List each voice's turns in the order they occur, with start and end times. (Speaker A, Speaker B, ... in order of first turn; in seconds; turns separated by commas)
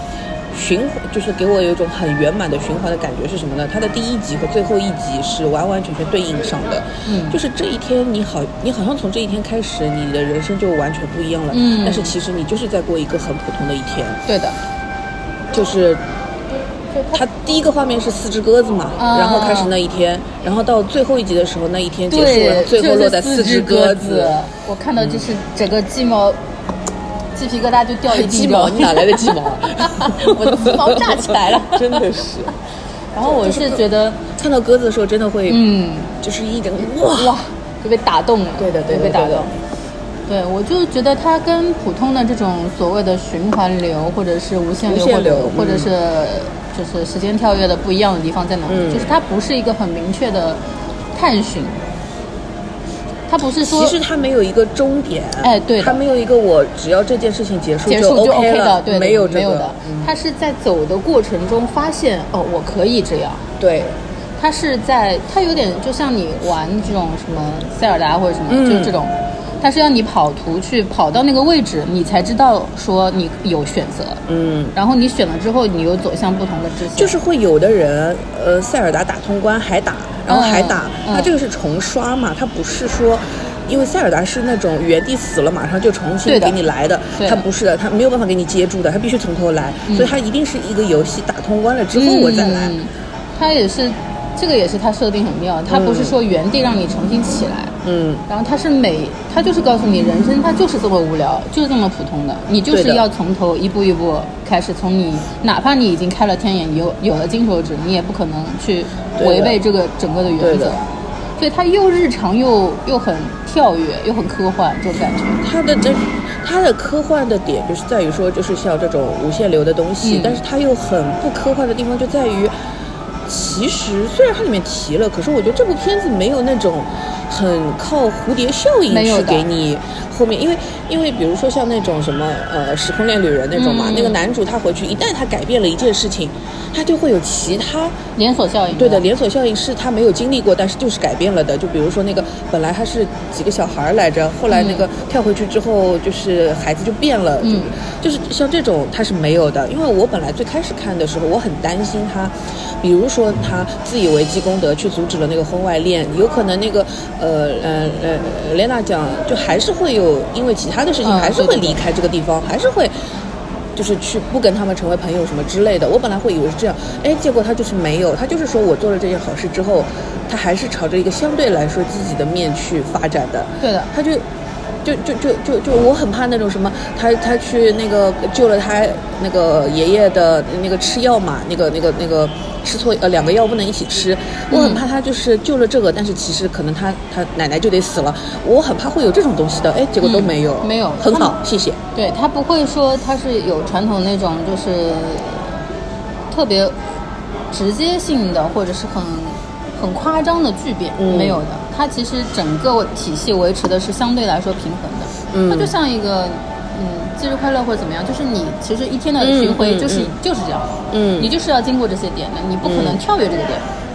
Speaker A: 0.5-14.2, Speaker B: 7.0-7.4, Speaker B: 11.5-12.1, Speaker B: 14.2-14.6, Speaker A: 15.5-16.0, Speaker B: 16.9-17.2, Speaker A: 17.1-24.4, Speaker B: 19.0-19.7, Speaker B: 22.1-26.4, Speaker A: 25.0-25.3, Speaker B: 27.3-32.0, Speaker A: 28.1-32.5, Speaker B: 33.1-34.2, Speaker A: 33.2-33.8, Speaker A: 34.4-35.6, Speaker B: 35.5-36.1, Speaker A: 36.2-37.4, Speaker B: 37.1-39.5, Speaker A: 38.6-39.5, Speaker B: 40.3-50.6, Speaker A: 44.8-45.9, Speaker A: 48.7-49.1, Speaker B: 51.1-51.8, Speaker B: 53.3-54.0, Speaker A: 53.6-60.1, Speaker B: 55.4-56.0, Speaker B: 57.9-63.4, Speaker A: 63.6-64.0, Speaker B: 64.4-74.2, Speaker A: 68.5-68.9, Speaker A: 74.3-74.7, Speaker B: 74.7-77.1, Speaker A: 76.9-92.7, Speaker B: 80.3-81.3, Speaker B: 86.2-86.6, Speaker B: 87.2-87.4, Speaker B: 89.9-90.1, Speaker B: 91.9-97.8, Speaker A: 95.7-96.2, Speaker A: 97.8-98.2, Speaker B: 98.3-110.8, Speaker A: 102.7-103.0, Speaker A: 109.2-109.6, Speaker A: 110.4-110.8, Speaker B: 111.4-115.4, Speaker A: 115.4-122.5, Speaker B: 120.0-120.4, Speaker A: 123.2-138.0, Speaker B: 128.9-129.4, Speaker B: 133.5-134.2, Speaker B: 138.2-139.0, Speaker A: 138.7-162.9, Speaker B: 144.5-144.9, Speaker B: 147.4-147.7, Speaker B: 161.0-161.8, Speaker A: 163.7-174.2, Speaker B: 173.6-173.9, Speaker A: 174.8-191.8, Speaker B: 184.5-184.8, Speaker B: 190.0-191.4, Speaker B: 191.9-195.6, Speaker B: 196.3-196.8, Speaker B: 197.5-213.7, Speaker A: 201.0-201.4, Speaker A: 205.3-205.7, Speaker A: 209.2-210.1, Speaker A: 210.9-211.3, Speaker A: 212.6-213.0